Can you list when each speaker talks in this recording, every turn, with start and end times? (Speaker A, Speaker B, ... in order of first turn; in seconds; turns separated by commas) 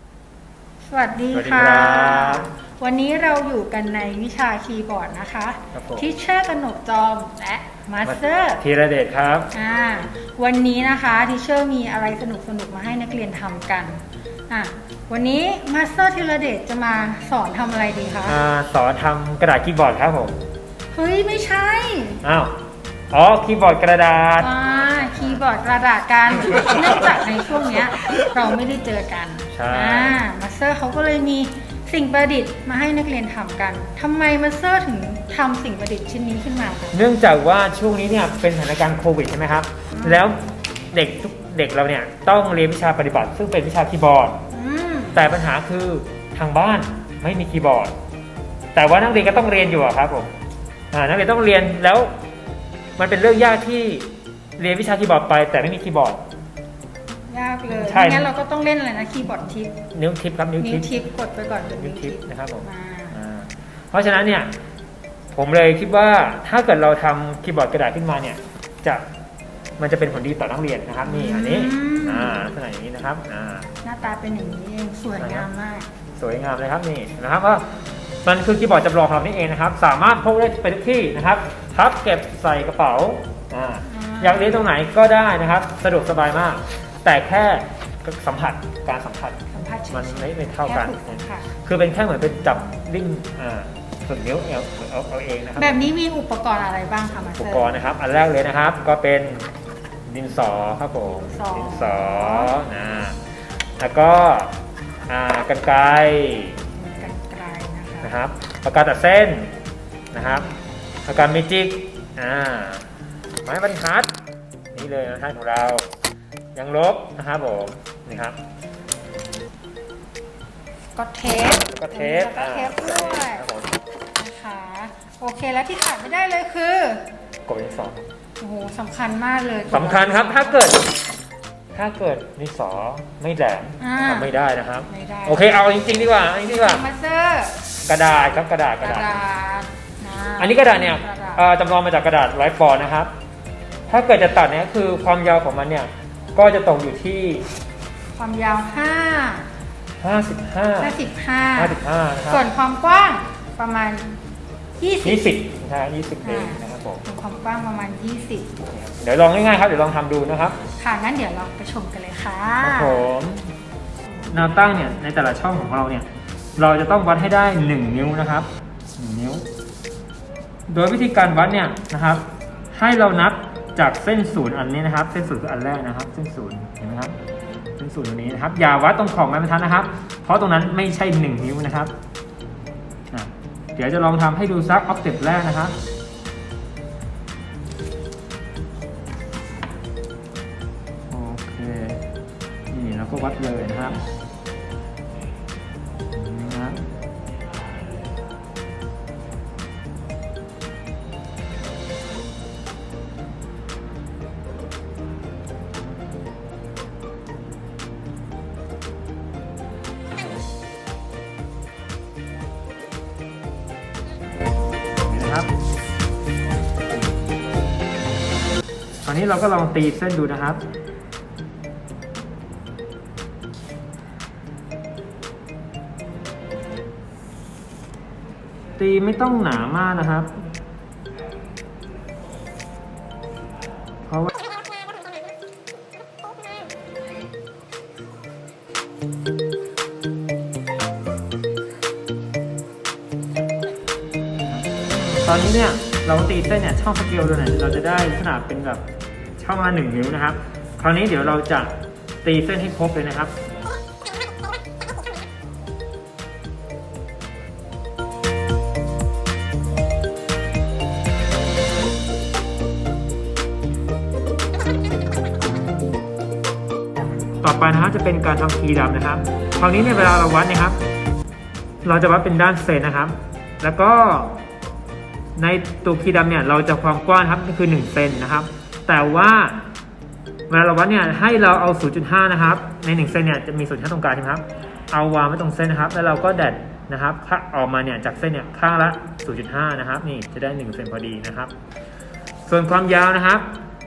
Speaker A: 0.8-8.6, Speaker B: 1.3-2.5, Speaker B: 5.7-6.1, Speaker B: 8.0-9.5, Speaker A: 9.5-18.4, Speaker B: 18.2-20.4, Speaker A: 20.9-22.2, Speaker B: 22.2-22.6, Speaker B: 23.1-25.4, Speaker A: 24.4-37.0, Speaker B: 29.5-30.2, Speaker B: 36.9-40.4, Speaker A: 39.9-40.2, Speaker B: 40.9-44.4, Speaker A: 44.5-45.2, Speaker B: 45.1-47.9, Speaker B: 48.7-50.3, Speaker B: 50.9-52.1, Speaker B: 53.0-56.2, Speaker A: 57.3-59.7, Speaker B: 57.8-58.3, Speaker B: 59.9-60.9, Speaker A: 60.6-63.1, Speaker B: 61.7-64.5, Speaker B: 65.3-69.0, Speaker B: 69.8-73.7, Speaker A: 71.0-72.5, Speaker A: 73.8-75.9, Speaker B: 75.2-75.5, Speaker B: 76.2-77.7, Speaker B: 78.2-89.4, Speaker A: 83.8-84.6, Speaker A: 89.5-91.5, Speaker B: 89.9-95.9, Speaker A: 92.4-92.8, Speaker A: 95.6-97.8, Speaker B: 97.4-99.5, Speaker B: 100.0-103.2, Speaker A: 101.0-102.6, Speaker B: 103.8-104.5, Speaker B: 105.1-106.6, Speaker A: 106.7-108.1, Speaker B: 108.0-109.5, Speaker B: 110.1-110.5, Speaker A: 110.2-110.5, Speaker B: 111.0-112.8, Speaker B: 113.4-114.1, Speaker B: 114.7-115.8, Speaker B: 116.5-118.4, Speaker A: 120.9-123.5, Speaker B: 121.5-123.8, Speaker A: 124.1-127.1, Speaker B: 127.5-128.1, Speaker A: 128.4-130.7, Speaker B: 129.7-130.9, Speaker B: 131.7-136.8, Speaker A: 133.8-134.3, Speaker A: 134.9-135.6, Speaker A: 136.2-137.6, Speaker B: 137.8-139.1, Speaker A: 138.8-141.4, Speaker B: 140.4-143.1, Speaker B: 143.9-147.5, Speaker A: 148.2-149.5, Speaker B: 150.0-150.9, Speaker A: 150.8-151.8, Speaker B: 151.6-152.4, Speaker A: 152.3-154.2, Speaker A: 154.8-155.3, Speaker B: 155.0-157.0, Speaker A: 156.2-158.5, Speaker B: 158.7-160.6, Speaker A: 160.8-163.1, Speaker B: 162.6-163.5, Speaker B: 164.3-169.5, Speaker B: 170.7-177.2, Speaker B: 177.8-181.9, Speaker B: 183.1-185.8, Speaker B: 191.1-192.1, Speaker B: 192.7-194.0, Speaker B: 196.1-196.9, Speaker B: 215.0-215.5, Speaker B: 219.0-220.6, Speaker B: 228.8-230.3, Speaker B: 234.1-234.4, Speaker B: 244.4-248.8, Speaker B: 249.4-253.3, Speaker B: 267.4-270.8, Speaker B: 271.8-274.4, Speaker B: 275.4-279.6, Speaker B: 280.5-291.5, Speaker B: 292.4-293.5